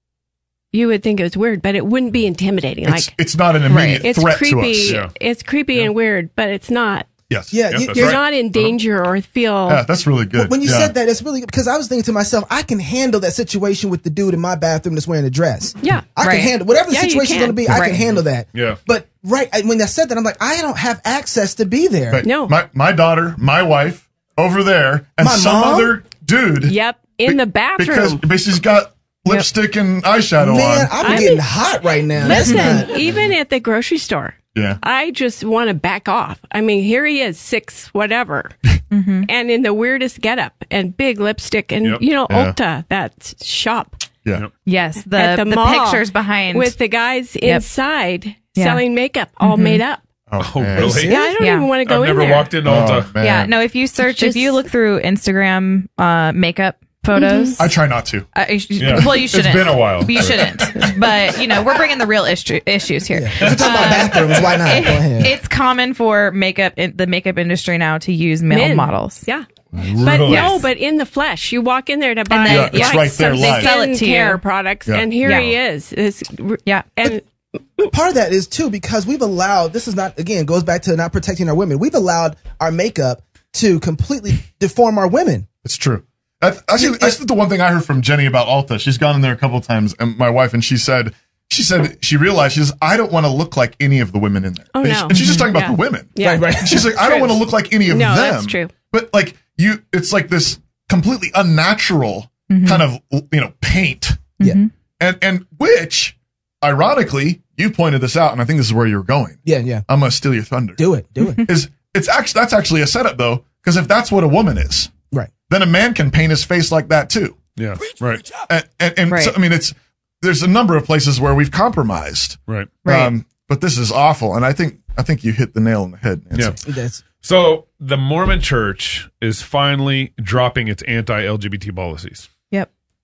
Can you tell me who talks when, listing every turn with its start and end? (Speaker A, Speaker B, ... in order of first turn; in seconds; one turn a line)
Speaker A: 0.7-3.1
Speaker B: 2.8-5.0
Speaker C: 3.7-4.0
Speaker A: 4.0-7.1
Speaker D: 4.8-5.1
Speaker B: 7.3-8.2
Speaker E: 7.5-8.1
Speaker D: 7.7-8.7
Speaker A: 7.8-9.8
Speaker B: 9.7-10.9
Speaker E: 10.4-22.2
Speaker A: 15.8-16.1
Speaker C: 16.2-16.5
Speaker A: 16.9-17.8
Speaker C: 17.7-18.1
Speaker D: 18.5-18.8
Speaker B: 22.1-31.3
Speaker A: 22.2-22.5
Speaker E: 25.2-25.9
Speaker A: 26.6-28.2
Speaker E: 30.4-32.9
Speaker A: 31.0-31.4
Speaker A: 32.2-44.0
Speaker C: 32.4-32.7
Speaker B: 34.5-34.8
Speaker C: 38.9-39.3
Speaker B: 42.3-42.5
Speaker C: 44.6-46.8
Speaker A: 45.1-50.0
Speaker C: 48.5-48.8
Speaker C: 49.4-49.8
Speaker B: 50.3-51.1
Speaker D: 50.4-51.2
Speaker A: 50.8-52.5
Speaker C: 51.0-51.7
Speaker D: 51.8-53.1
Speaker B: 52.6-53.5
Speaker C: 53.2-57.7
Speaker A: 54.0-54.5
Speaker A: 57.1-57.6
Speaker B: 57.6-58.3
Speaker C: 58.3-69.2
Speaker D: 58.8-60.9
Speaker E: 63.1-65.3
Speaker D: 63.4-64.0
Speaker A: 68.5-69.5
Speaker B: 69.7-70.2
Speaker D: 69.8-70.6
Speaker A: 70.0-77.2
Speaker C: 70.2-70.6
Speaker C: 72.3-74.4
Speaker B: 72.5-73.7
Speaker B: 74.9-75.2
Speaker C: 75.2-75.5
Speaker C: 76.7-77.1
Speaker E: 77.9-85.5
Speaker B: 85.6-104.3
Speaker E: 86.8-87.2
Speaker A: 94.7-98.7
Speaker C: 95.1-95.5
Speaker E: 96.2-96.9
Speaker C: 102.5-102.8
Speaker C: 104.4-104.7
Speaker B: 105.0-110.8
Speaker E: 109.4-109.8
Speaker E: 110.8-111.5
Speaker B: 111.4-114.9
Speaker B: 115.5-117.4
Speaker D: 117.5-118.2
Speaker B: 118.4-126.6
Speaker C: 119.1-119.3
Speaker C: 122.8-123.1
Speaker E: 126.5-127.0
Speaker D: 127.2-132.3